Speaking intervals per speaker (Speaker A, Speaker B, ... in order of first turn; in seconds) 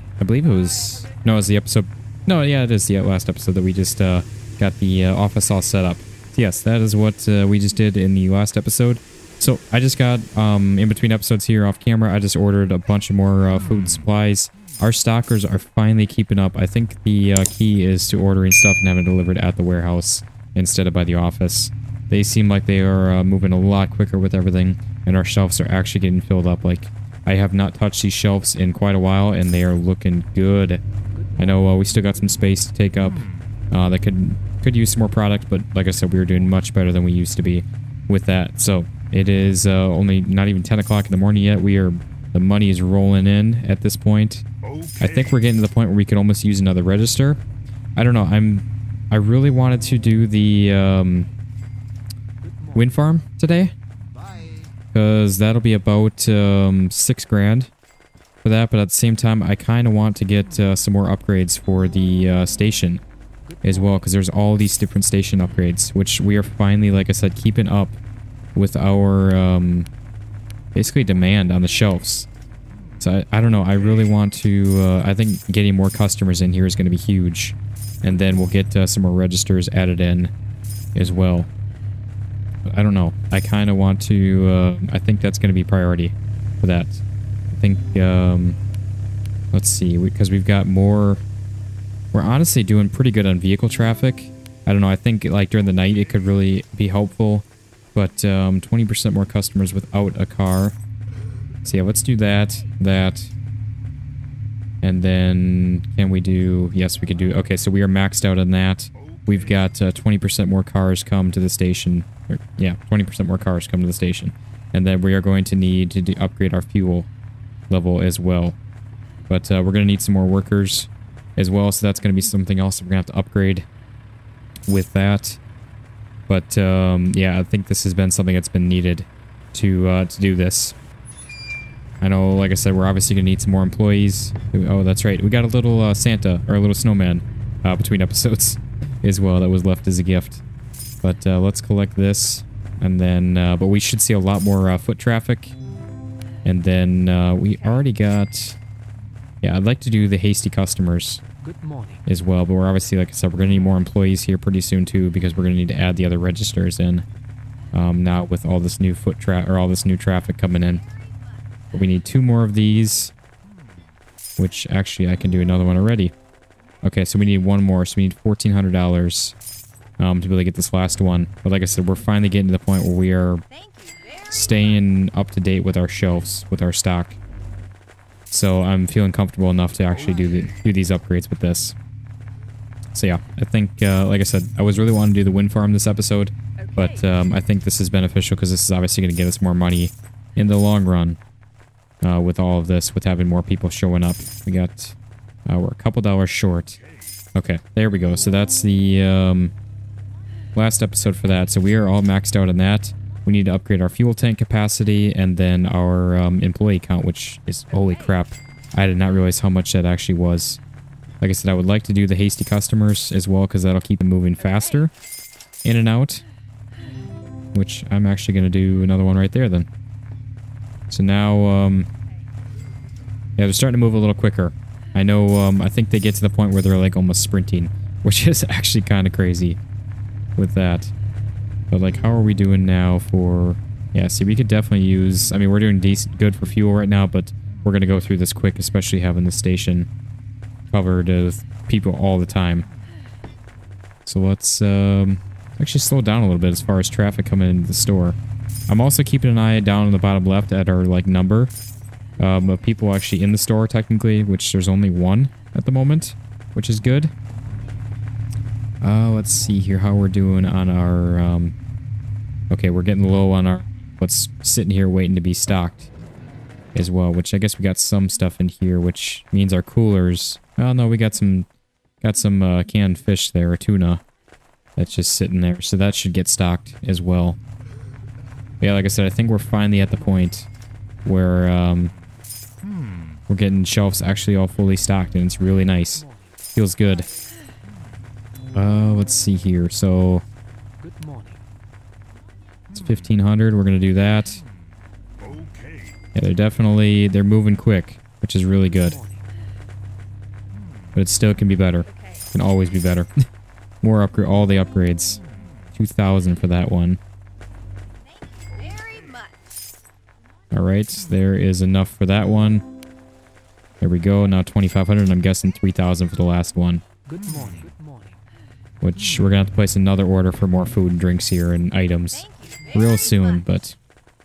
Speaker A: 0.2-30.8, 31.4-44.4, 45.0-47.4, 48.0-51.3, 52.8-53.7, 54.9-57.7, 58.4-63.0, 63.6-68.0, 68.5-69.9, 70.8-72.3, 73.0-80.3, 81.0-81.5, 82.7-88.6, 89.5-91.2, 92.1-100.8, 101.6-103.3, 104.8-117.1, 117.7-118.6, 119.3-123.7, 124.7-125.4, 126.3-130.8, 132.0-140.4, 141.0-145.6, 146.4-148.6, 149.4-151.2, 152.1-157.1, 157.7-160.8, 161.7-163.1, 164.4-166.1, 166.8-169.3, 170.0-173.4, 174.3-177.2, 178.3-181.8, 182.9-191.2, 192.0-196.8, 197.3-199.5, 200.6-210.6, 211.2-214.9, 215.6-216.2, 217.5-219.7, 220.9-221.9, 223.4-229.6, 230.4-230.9, 231.7-239.9, 240.7-242.7, 244.1-248.2, 248.7-251.5, 252.2-257.1, 258.8-261.6, 262.5-265.9, 266.8-271.5, 272.0-274.0, 274.8-277.4, 278.6-280.5, 281.1-281.9, 283.3-287.1, 288.6-290.2, 292.7-294.4, 296.1-299.0, 300.9-303.1, 303.8-305.2, 305.8-307.0, 310.5-312.6, 313.8-316.8, 318.8-323.8
Speaker B: 173.5-174.8, 186.6-187.1, 207.7-208.2, 301.9-302.3, 308.1-309.4, 322.2-323.4